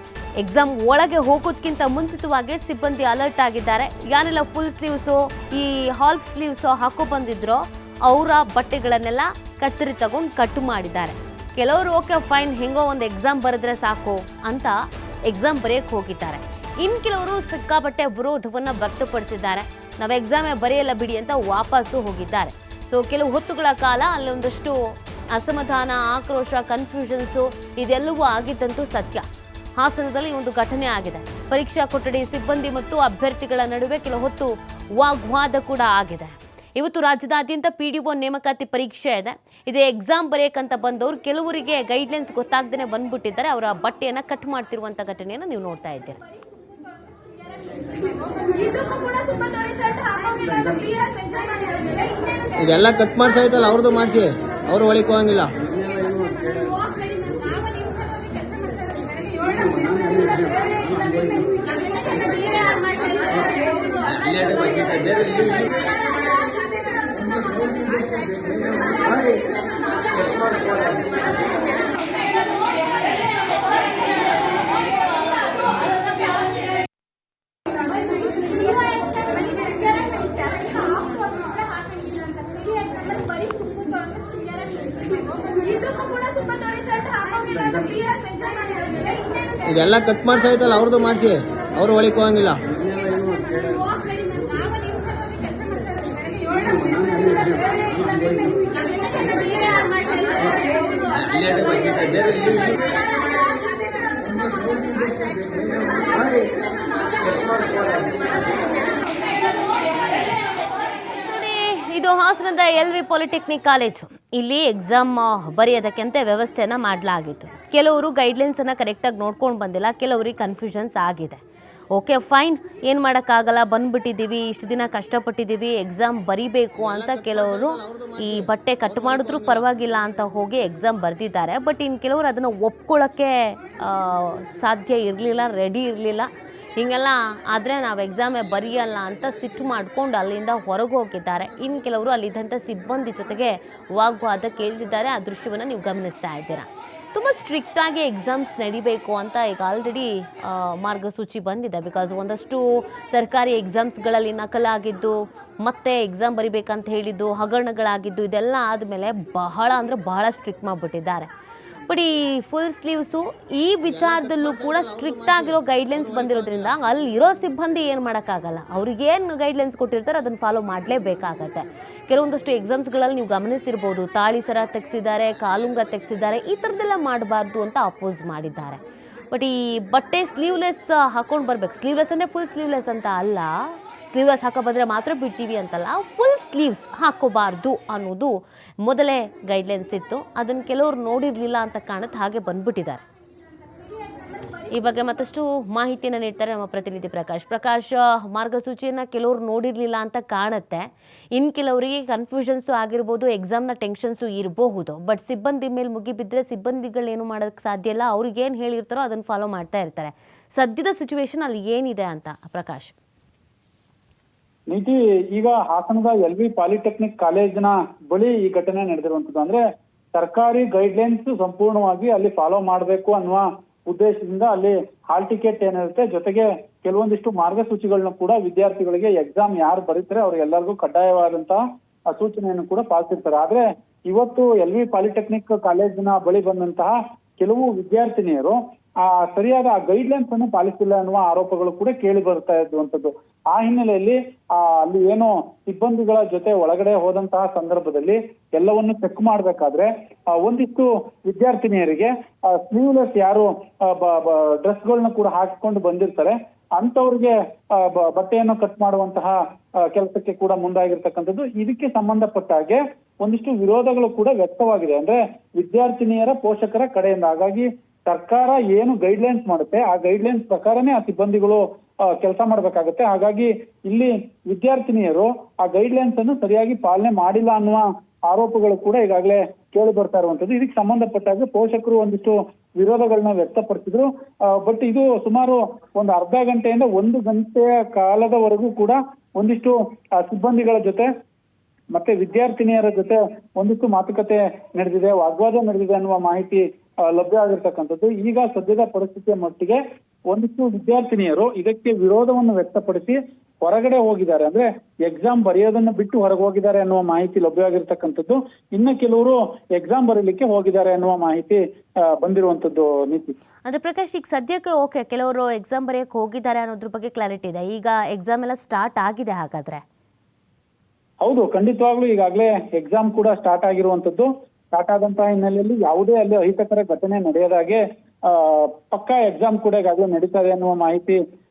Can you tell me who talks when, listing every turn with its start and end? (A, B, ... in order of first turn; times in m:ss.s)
0:00.4-0:24.8 A
0:25.3-0:29.2 A
0:29.8-0:46.2 A
0:50.5-0:50.9 B
0:52.6-0:55.6 C
0:55.7-0:56.8 B
0:59.4-1:01.7 B
1:04.2-1:05.6 B
1:27.5-1:28.0 B
1:29.7-1:32.6 C
1:32.8-1:34.8 B
1:36.6-1:39.6 B
1:41.2-1:42.7 B
1:51.1-2:01.4 A
2:01.9-2:41.3 A
2:06.8-2:09.6 C
2:41.9-3:13.0 A
2:43.9-2:46.7 C
3:14.7-3:33.0 A
3:34.7-3:39.6 D
3:40.1-4:19.4 D
4:19.9-4:31.6 D
4:32.1-4:51.1 D
4:51.9-4:59.8 D
5:00.3-5:11.6 D
5:12.2-5:13.4 D
5:13.6-5:19.8 A
5:21.2-5:31.2 D